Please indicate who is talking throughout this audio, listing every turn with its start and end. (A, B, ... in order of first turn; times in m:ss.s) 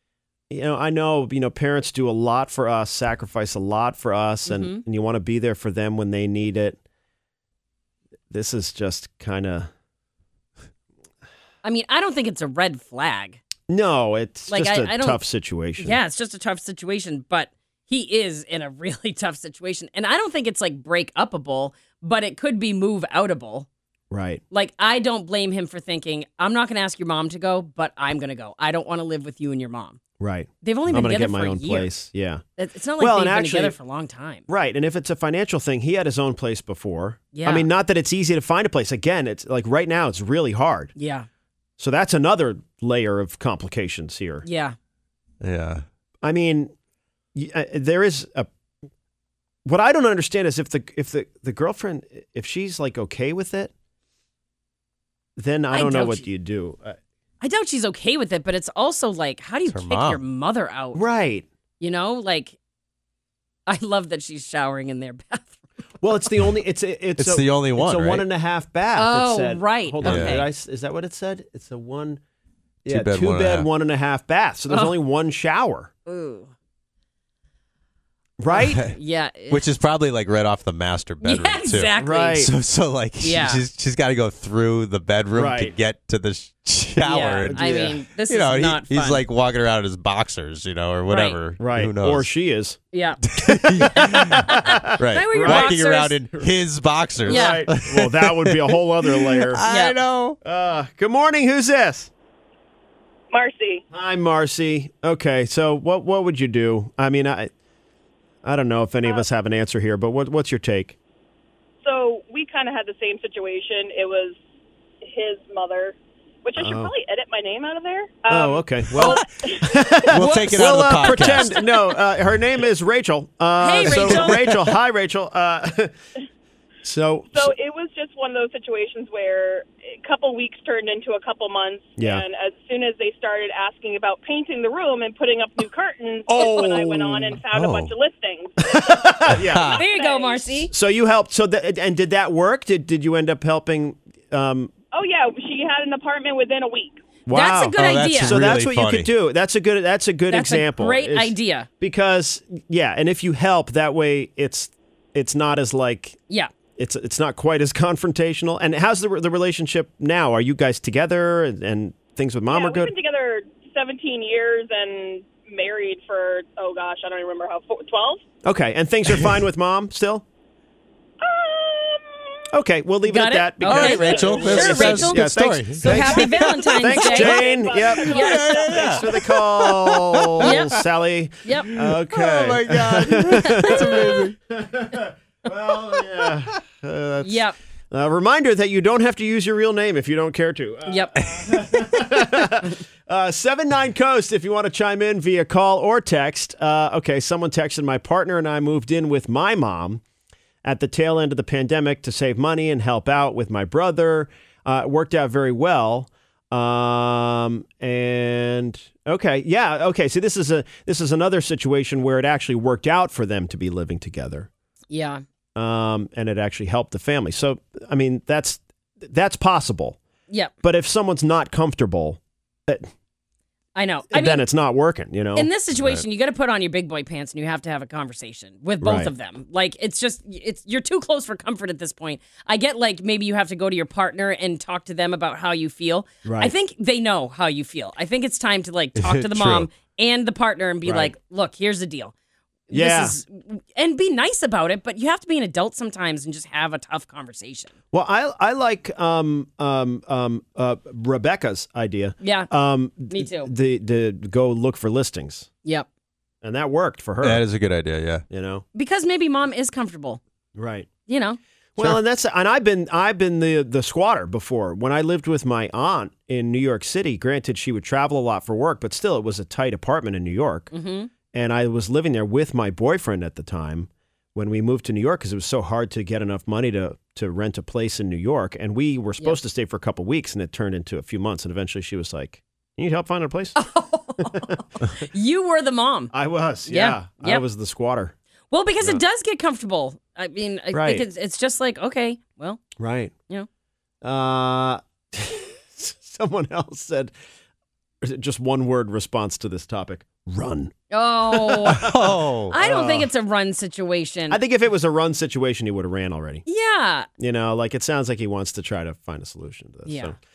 0:00.5-0:06.8 A
0:04.5-0:04.8 B
0:08.3-0:09.7 A
0:11.6-0:13.4 B
0:13.7-0:16.0 A
0:14.5-0:15.2 B
0:15.8-0:23.7 B
0:24.1-0:24.4 A
0:24.5-0:30.0 B
0:30.2-0:32.4 A
0:30.6-0:31.9 B
0:32.6-0:34.4 B
0:33.0-0:33.8 A
0:34.5-0:40.9 A
0:37.3-0:37.7 B
0:41.0-0:41.2 B
0:41.8-0:44.4 A
0:44.4-0:44.8 B
0:45.4-0:45.8 C
0:46.2-0:46.7 A
0:47.3-0:48.5 A
0:49.6-0:53.7 A
0:55.4-0:57.0 A
0:55.7-0:56.2 B
0:57.4-1:01.0 B
0:59.7-1:00.2 C
1:00.9-1:01.5 A
1:01.8-1:02.6 B
1:03.7-1:05.6 B
1:06.0-1:12.2 A
1:07.2-1:08.2 C
1:08.9-1:10.5 B
1:10.0-1:10.4 C
1:12.8-1:15.9 A
1:12.9-1:13.7 C
1:14.7-1:15.0 B
1:16.1-1:16.5 B
1:18.4-1:18.8 A
1:18.5-1:19.7 B
1:18.6-1:19.0 C
1:19.5-1:32.3 C
1:21.2-1:22.5 B
1:22.0-1:22.5 A
1:23.2-1:23.6 B
1:25.3-1:25.7 A
1:27.0-1:29.2 B
1:27.4-1:28.0 A
1:31.1-1:31.4 B
1:31.6-1:32.8 A
1:32.9-1:33.2 B
1:33.3-1:40.4 C
1:33.5-1:35.8 A
1:33.8-1:36.2 B
1:37.2-1:39.6 A
1:37.2-1:37.6 B
1:39.7-1:40.0 B
1:40.4-1:42.1 A
1:43.3-1:43.8 D
1:43.9-1:47.5 A
1:48.4-1:51.0 A
1:51.8-1:54.4 D
1:55.0-2:00.2 D
1:56.6-1:56.9 A
1:58.3-2:05.9 A
2:00.1-2:01.6 C
2:01.4-2:01.7 D
2:03.6-2:04.7 B
2:03.8-2:04.4 C
2:06.8-2:07.5 A
2:07.3-2:20.6 D
2:12.0-2:12.2 A
2:16.3-2:17.4 A
2:17.5-2:17.9 C
2:18.6-2:19.8 A
2:19.3-2:19.8 C
2:19.8-2:20.7 B
2:20.7-2:24.7 A
2:24.9-2:27.0 D
2:27.3-2:36.2 A
2:27.3-2:28.4 B
2:27.8-2:29.1 C
2:30.3-2:31.7 B
2:36.8-2:42.9 A
2:42.5-2:48.2 D
2:48.4-2:50.2 A
2:51.2-2:52.3 D
2:52.5-3:20.0 A
2:53.0-2:57.4 B
2:53.6-2:57.2 C
2:54.0-2:54.6 D
2:55.9-2:56.3 D
2:56.9-2:59.1 D
2:57.8-3:00.4 C
2:58.1-2:58.6 B
3:00.4-3:00.8 B
3:01.4-3:01.7 B
3:01.7-3:04.3 C
3:03.2-3:04.3 B
3:06.3-3:06.6 C
3:07.2-3:07.5 B
3:10.8-3:11.3 B
3:20.6-3:34.5 A
3:34.9-3:35.2 B
3:35.6-3:40.0 A
3:40.6-3:42.9 A
3:43.7-3:44.4 B
3:44.1-3:46.0 A
3:45.3-4:02.1 B
3:48.8-3:49.1 A
3:56.2-3:56.5 A
3:59.0-3:59.7 C
4:00.8-4:01.1 A
4:02.7-4:07.7 B
4:02.7-4:03.2 A
4:07.9-4:15.5 A
4:12.2-4:12.5 B
4:13.1-4:13.5 B
4:16.4-4:17.4 A
4:17.2-4:18.2 C
4:18.3-4:18.6 A
4:18.7-4:20.2 B
4:20.5-4:20.9 A
4:21.1-4:21.4 B
4:21.8-4:30.7 A
4:30.7-4:31.1 B
4:31.3-4:43.6 A
4:43.6-4:46.1 B
4:46.1-4:48.2 A
4:46.7-4:47.4 B
4:48.5-4:52.6 B
4:50.7-4:51.0 A
4:52.8-4:53.1 A
4:54.0-4:57.1 A
4:58.0-5:00.7 A
5:00.9-5:04.4 B
5:01.3-5:03.1 A
5:01.7-5:02.5 C
5:04.3-5:06.4 A
5:06.5-5:07.1 B
5:07.2-5:10.2 A
5:09.9-5:10.1 B